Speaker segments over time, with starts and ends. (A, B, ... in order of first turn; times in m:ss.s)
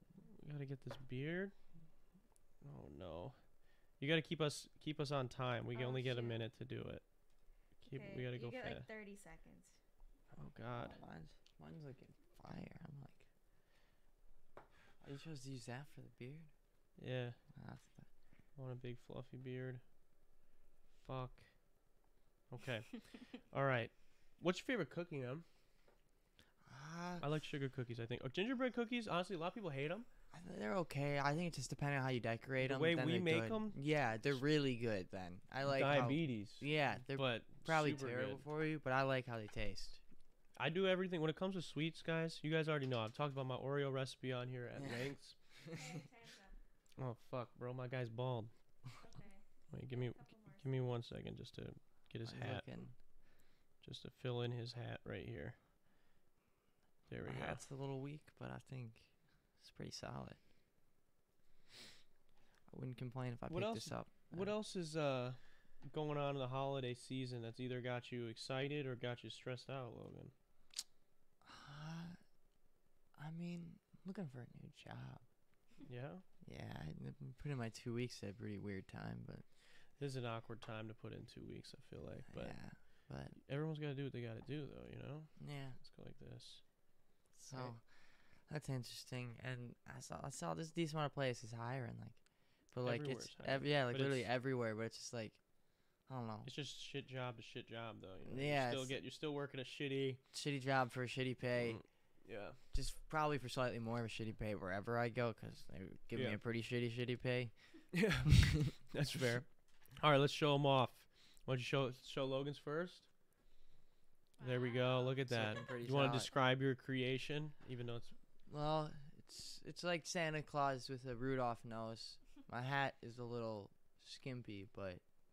0:00.3-0:01.5 A
0:02.6-0:07.0 A
0:05.7-0:06.4 B
0:07.8-0:08.8 A
0:07.8-0:09.8 B
0:10.3-0:11.0 A
0:10.8-0:13.2 C
0:15.0-0:16.5 C
0:17.0-0:17.4 A
0:17.5-0:18.1 C
0:18.6-0:19.8 A
0:21.0-0:21.5 A
0:22.5-0:25.4 A
0:26.6-0:27.3 C
0:27.2-0:30.0 A
0:30.3-0:40.0 C
0:32.6-0:34.4 A
0:35.6-0:38.4 A
0:40.6-0:45.4 A
0:44.8-0:45.0 C
0:45.6-0:46.0 C
0:45.7-0:46.6 B
0:47.0-0:48.5 A
0:49.0-0:50.8 B
0:49.7-0:53.0 A
0:52.2-0:53.0 C
0:53.8-0:55.6 A
0:57.1-0:57.6 A
0:57.2-1:00.4 C
1:02.7-1:04.5 C
1:03.5-1:10.3 A
1:11.4-1:12.2 C
1:13.2-1:15.2 C
1:15.8-1:16.2 A
1:16.4-1:19.5 C
1:19.9-1:26.7 A
1:22.3-1:23.3 C
1:25.4-1:25.8 C
1:27.3-1:35.4 C
1:32.8-1:34.3 A
1:36.0-1:36.5 C
1:36.4-1:40.2 A
1:38.2-1:38.9 C
1:40.3-1:41.8 C
1:41.6-1:42.6 A
1:42.7-1:47.5 C
1:46.1-1:46.4 A
1:47.9-1:53.1 A
1:54.4-1:55.6 B
1:54.4-1:58.1 A
1:55.3-1:56.3 C
1:58.5-2:05.0 C